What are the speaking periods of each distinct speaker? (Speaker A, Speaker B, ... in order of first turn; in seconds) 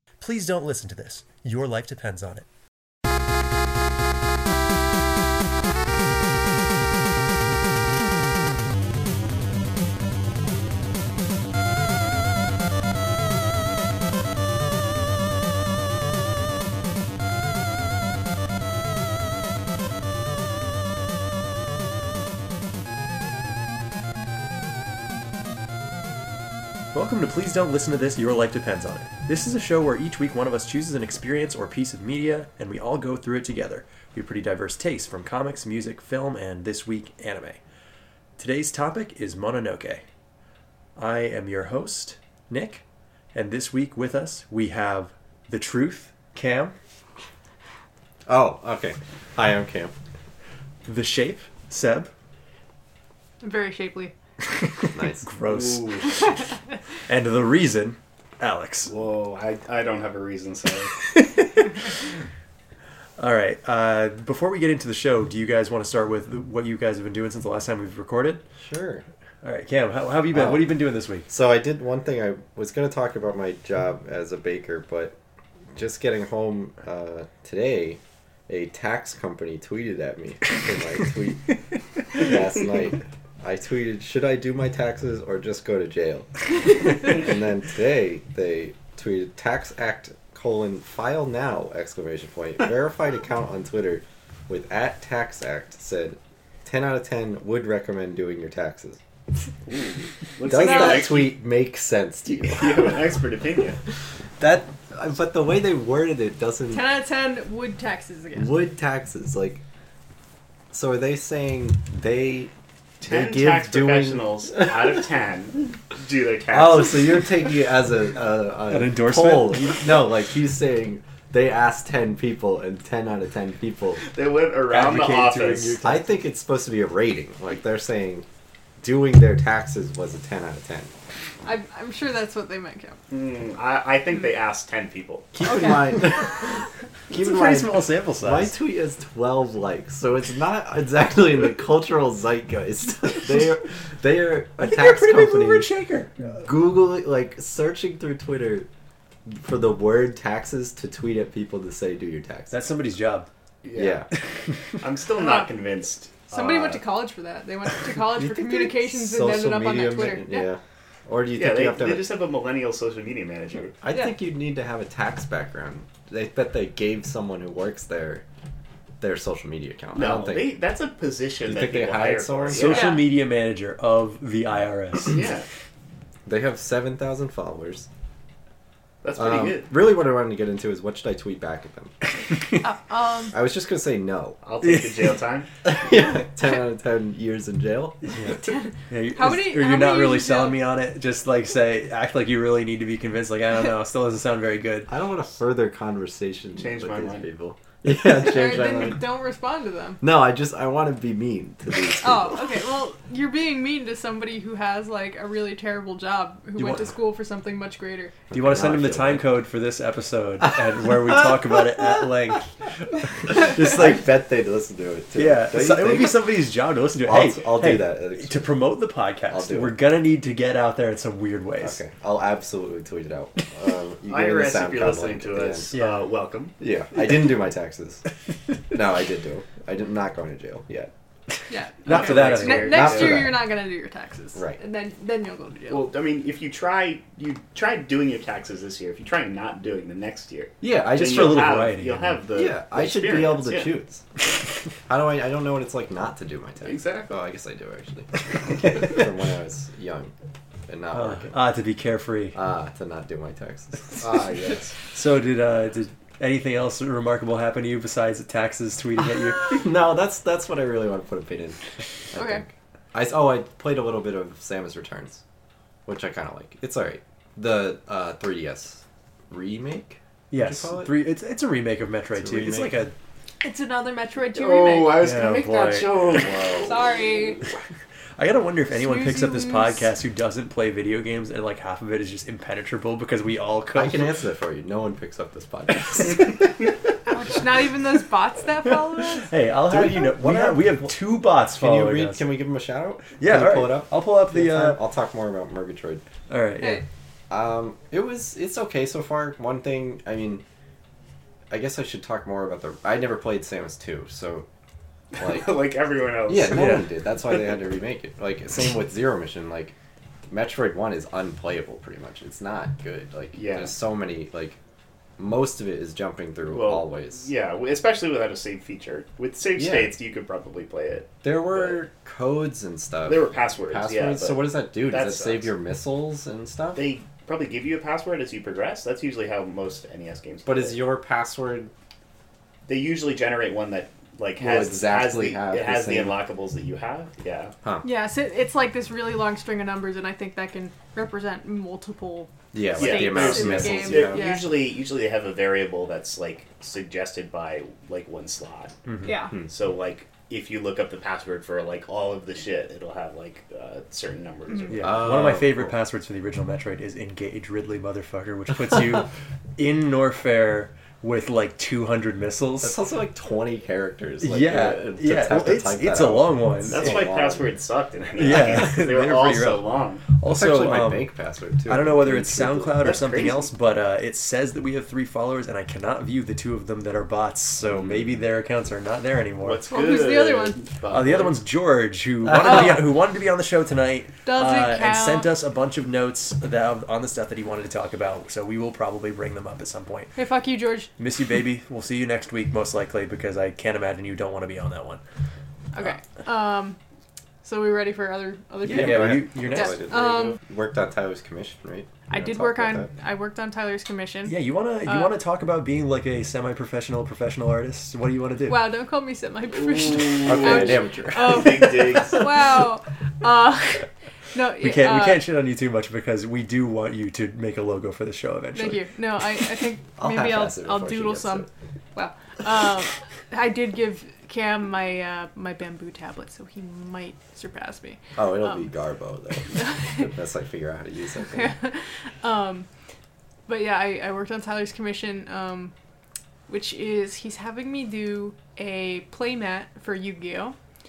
Speaker A: 0.2-2.5, 26.9-37.6, 38.4-40.0, 41.0-42.8, 43.3-46.7, 50.9-52.1, 54.8-56.4, 57.1-58.9, 61.1-61.8, 63.2-68.4, 69.4-71.3, 118.7-119.8, 124.7-126.1, 137.1-138.5, 144.6-146.4, 152.5-153.3, 172.5-175.2, 188.1-194.9, 208.3-212.5, 213.3-213.8, 215.1-221.8, 225.7-226.0, 231.8-233.0, 240.9-242.2, 250.9-252.4, 254.9-259.6, 270.3-272.9, 275.0-276.1, 278.2-284.1, 288.9-292.2, 293.2-294.8, 296.3-296.8, 306.5-306.8, 348.9-349.2, 354.7-362.8, 364.2-366.9, 368.2-371.1, 371.6-379.6, 380.9-390.2, 391.0-395.0, 398.6-399.8, 404.2-408.7, 414.6-418.9
Speaker B: 48.3-49.9, 54.9-55.3, 68.6-69.0, 70.3-75.2, 75.7-81.6, 82.1-99.0, 100.4-103.0, 104.4-106.8, 108.3-109.6, 110.7-112.5, 113.0-114.7, 116.5-124.0, 125.8-128.2, 128.8-130.9, 135.3-136.5, 137.1-145.7, 146.4-148.7, 149.2-152.6, 153.7-154.1, 158.2-162.1, 163.8-168.2, 169.0-170.5, 171.4-172.9, 176.2-177.9, 179.2-181.9, 183.3-184.4, 185.6-188.0, 194.9-199.0, 200.0-202.6, 206.6-206.9, 208.3-209.3, 210.8-211.3, 213.2-216.3, 217.1-218.4, 219.3-219.8, 221.6-225.7, 226.6-228.1, 228.7-230.9, 232.3-233.6, 240.6-241.6, 242.3-244.0, 244.9-250.1, 250.7-251.3, 252.3-254.0, 259.4-265.2, 265.9-271.0, 272.1-272.8, 276.1-276.8, 283.7-286.4, 289.7-290.9, 291.5-296.0, 297.3-300.4, 301.5-304.5, 305.2-305.6, 306.3-309.7, 310.3-314.6, 315.2-317.3, 319.6-319.9, 321.2-326.8, 330.4-331.7, 334.4-336.2, 342.5-344.4, 354.8-355.7, 362.6-367.5, 370.2-372.9, 377.7-378.2, 382.3-382.8, 398.7-402.9, 410.2-412.0, 419.9-421.5, 428.1-431.5
Speaker C: 53.4-54.1, 100.5-101.1, 106.7-108.6, 131.4-133.0, 135.4-136.0, 155.2-155.5, 156.3-160.5, 172.7-173.0, 182.6-183.4, 188.4-190.6, 197.9-200.0, 202.0-208.2, 231.5-235.8, 262.1-262.4, 273.4-274.9, 276.6-277.4, 278.7-279.9, 287.1-289.3, 337.8-344.5, 349.0-349.3, 379.7-380.6, 384.2-385.3, 390.1-390.9, 395.7-396.8, 397.4-400.4, 402.1-405.1, 408.5-415.3, 418.5-428.7, 429.5-430.1, 431.3-432.7, 433.5-435.7, 436.5-440.6
Speaker D: 55.4-56.3, 58.9-61.0, 99.7-101.4, 102.5-103.8, 113.0-117.2, 124.0-125.8, 133.1-135.3, 153.6-154.0, 154.8-156.8, 161.3-163.8, 169.9-173.0, 175.0-175.4, 179.0-179.7, 184.4-185.5, 196.6-197.2, 224.1-226.5, 231.8-233.3, 235.7-243.7, 246.6-247.1, 254.0-254.7, 274.3-276.4, 305.1-306.8, 313.3-313.7, 316.5-321.8, 323.0-325.5, 326.7-330.8, 332.6-337.5, 342.8-348.7, 349.5-355.1, 366.7-370.1, 372.8-373.5, 379.4-381.4, 409.6-412.3